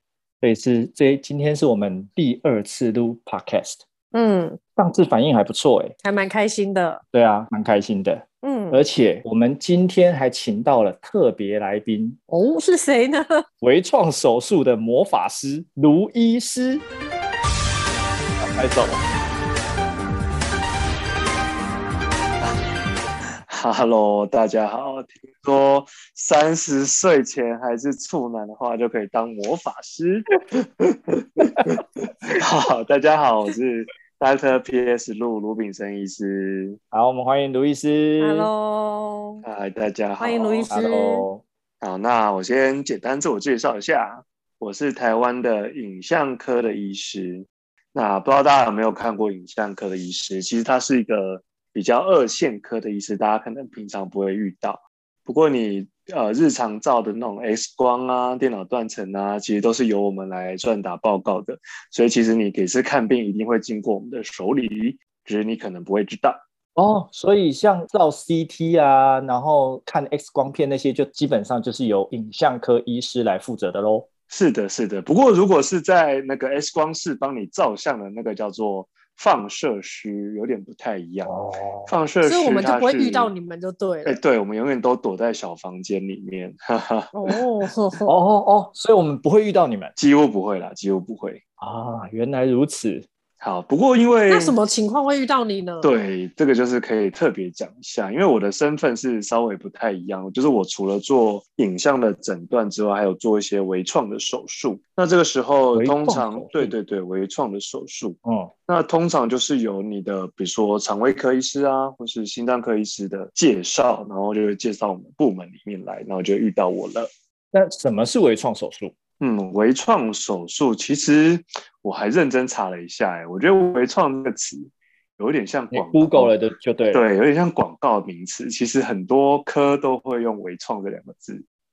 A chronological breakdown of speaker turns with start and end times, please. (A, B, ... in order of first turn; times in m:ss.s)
0:00.4-0:03.8 A
0:04.1-0:04.6 B
0:04.8-0:05.9 A
0:06.0-0:07.0 B
0:07.1-0:12.2 A
0:08.4-0:08.8 B
0:12.3-0:13.4 B
0:13.6-0:16.8 A
0:18.4-0:19.0 A
0:23.5-0:36.8 C
0:36.9-0:38.5 A
0:38.2-0:39.4 B
0:39.4-0:40.8 C
0:40.2-0:41.2 B
0:40.7-0:41.4 A
0:41.8-1:06.4 C
1:06.8-1:14.1 A
1:14.3-1:21.3 C
1:21.2-1:21.9 A
1:21.8-1:23.3 C
1:22.2-1:24.2 B
1:24.0-1:27.4 C
1:27.1-1:28.1 B
1:28.1-1:29.9 A
1:30.0-1:31.4 C
1:31.6-1:33.0 A
1:33.4-1:34.6 C
1:34.3-1:35.9 B
1:35.8-1:57.1 C
1:45.7-1:46.7 A
1:48.2-1:48.5 A
1:57.5-1:58.9 A
1:59.2-2:06.3 C
2:05.7-2:07.0 A
2:06.9-2:11.4 C